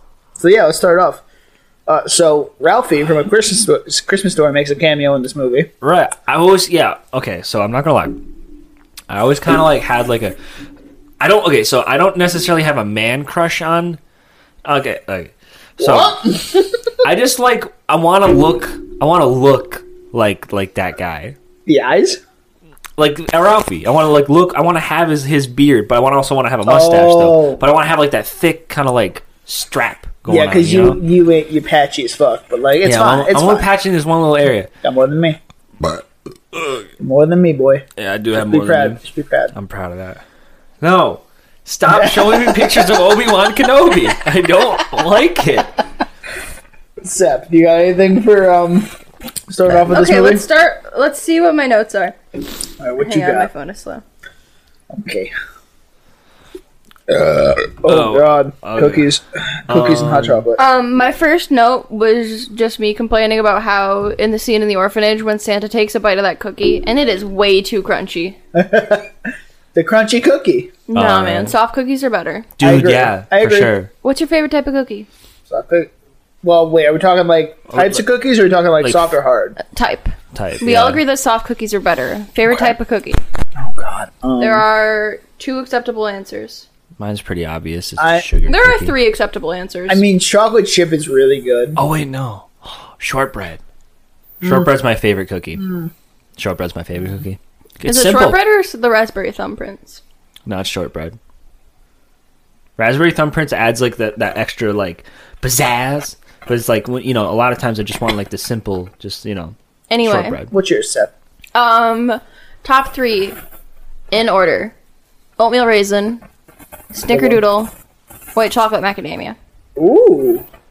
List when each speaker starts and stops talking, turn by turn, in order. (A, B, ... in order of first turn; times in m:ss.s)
0:00.4-0:01.2 A
0:01.9-0:05.7 A
0:05.8-0:08.2 B
0:09.1-0:10.4 B
0:11.2-0:14.0 B
0:14.6-0:16.2 B
0:15.8-0:17.0 A
0:17.0-0:21.4 B
0:21.7-0:22.2 A
0:23.0-0:31.0 B
0:26.6-0:27.6 A
0:30.3-0:33.7 A
0:32.8-0:34.7 B
0:34.8-0:35.4 A
0:36.5-0:36.9 B
0:37.0-0:39.5 A
0:38.0-0:39.0 B
0:39.5-0:40.2 B
0:40.8-0:45.8 B
0:41.9-0:42.9 A
0:47.0-0:48.9 A
0:49.5-0:50.5 A
0:49.9-0:52.2 C
0:52.8-0:53.5 A
0:53.0-0:54.0 C
0:54.9-0:55.3 A
0:57.1-1:00.6 A
0:57.9-0:59.1 B
0:59.7-1:00.4 B
1:00.6-1:08.4 C
1:08.5-1:09.1 A
1:09.8-1:10.7 A
1:10.9-1:12.5 C
1:10.9-1:11.5 B
1:12.6-1:13.9 B
1:12.6-1:13.7 A
1:14.0-1:15.1 C
1:15.5-1:15.9 A
1:16.4-1:19.6 A
1:17.7-1:18.0 B
1:19.6-1:23.2 C
1:20.3-1:21.0 B
1:23.6-1:24.7 A
1:24.4-1:26.7 C
1:27.0-1:28.9 B
1:28.0-1:28.3 A
1:28.5-1:30.0 C
1:29.9-1:31.8 A
1:31.8-1:33.6 B
1:34.4-1:35.6 B
1:35.6-1:35.9 A
1:36.4-1:38.4 B
1:37.8-1:40.0 C
1:40.5-1:41.2 B
1:42.8-1:50.5 B
1:49.9-1:50.4 C
1:50.5-1:51.1 A
1:51.5-1:53.4 C
1:54.1-1:54.7 C
1:55.4-1:56.2 C
1:56.9-1:57.7 C
1:57.1-1:57.4 A
1:58.4-1:59.4 C
1:59.8-2:00.4 A